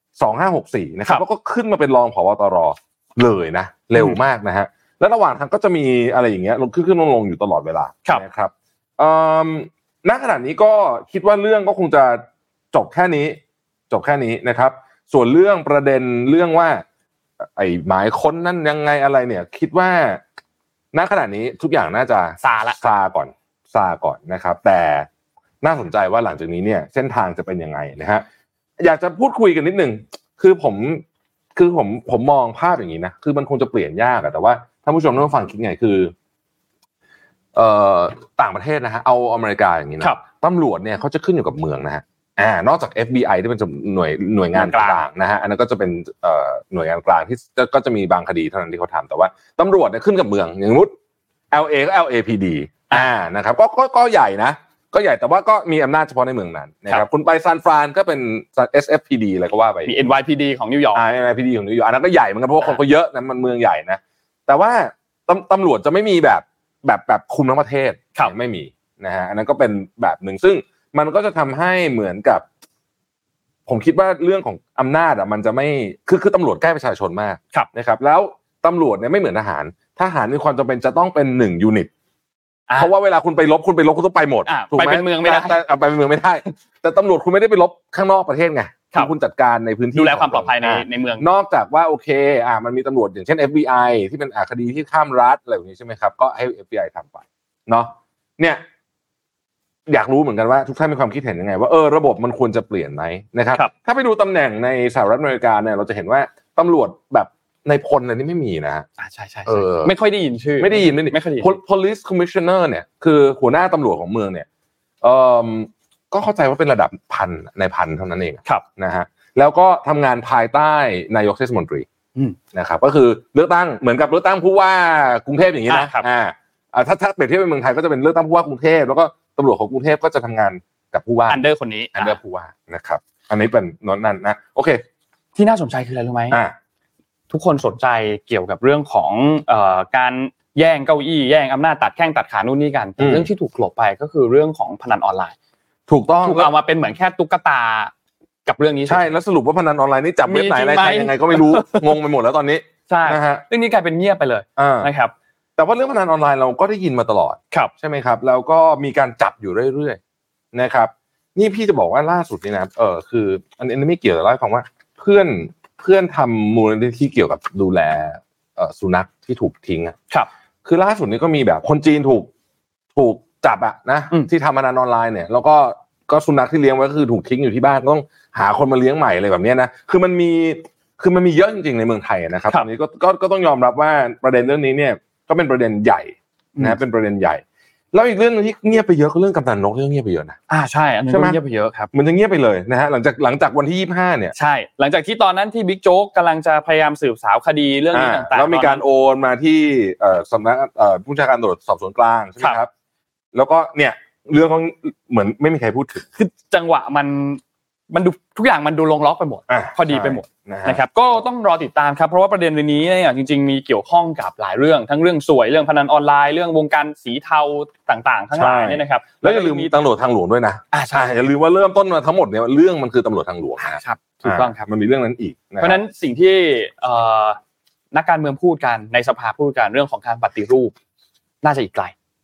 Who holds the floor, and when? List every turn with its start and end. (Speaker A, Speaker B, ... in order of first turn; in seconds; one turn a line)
Speaker A: 0.2-16.8
Speaker A: 17.4-20.2
Speaker A: 20.9-25.1
Speaker B: 22.4-22.8
Speaker A: 25.6-28.2
Speaker A: 28.8-31.0
Speaker A: 31.5-36.1
Speaker A: 37.5-50.9
Speaker B: 44.5-45.0
Speaker A: 51.5-59.9
Speaker B: 59.8-61.0
Speaker A: 60.9-72.5
Speaker A: 73.7-81.9
Speaker A: 82.8-98.6
Speaker B: 84.5-85.6
Speaker B: 89.9-91.2
Speaker A: 99.9-108.8
Speaker B: 109.0-111.5
Speaker A: 109.5-109.9
Speaker A: 110.6-114.5
Speaker A: 115.0-121.8
Speaker A: 122.5-131.4
Speaker B: 125.7-126.1
Speaker B: 131.3-132.2
Speaker A: 131.9-134.8
Speaker B: 135.3-136.4
Speaker A: 136.3-136.5
Speaker B: 137.3-145.3
Speaker A: 143.0-143.3
Speaker A: 145.9-146.5
Speaker B: 146.2-147.9
Speaker B: 148.4-149.1
Speaker A: 148.9-153.4
Speaker B: 150.3-151.9
Speaker B: 152.9-155.1
Speaker A: 154.6-154.9
Speaker A: 155.6-160.0
Speaker A: 160.5-169.9
Speaker A: 170.6-172.3
Speaker A: 172.9-190.4
Speaker B: 190.5-191.9
Speaker A: 191.1-191.4
Speaker A: 191.9-194.3
Speaker B: 194.3-198.8
Speaker A: 197.9-202.7
Speaker A: 203.3-206.1
Speaker B: 206.2-219.7
Speaker A: 209.5-210.8
Speaker A: 218.3-225.8
Speaker B: 220.7-221.2
Speaker B: 223.7-224.6
Speaker B: 225.6-227.4
Speaker B: 227.9-230.7
Speaker B: 231.4-231.9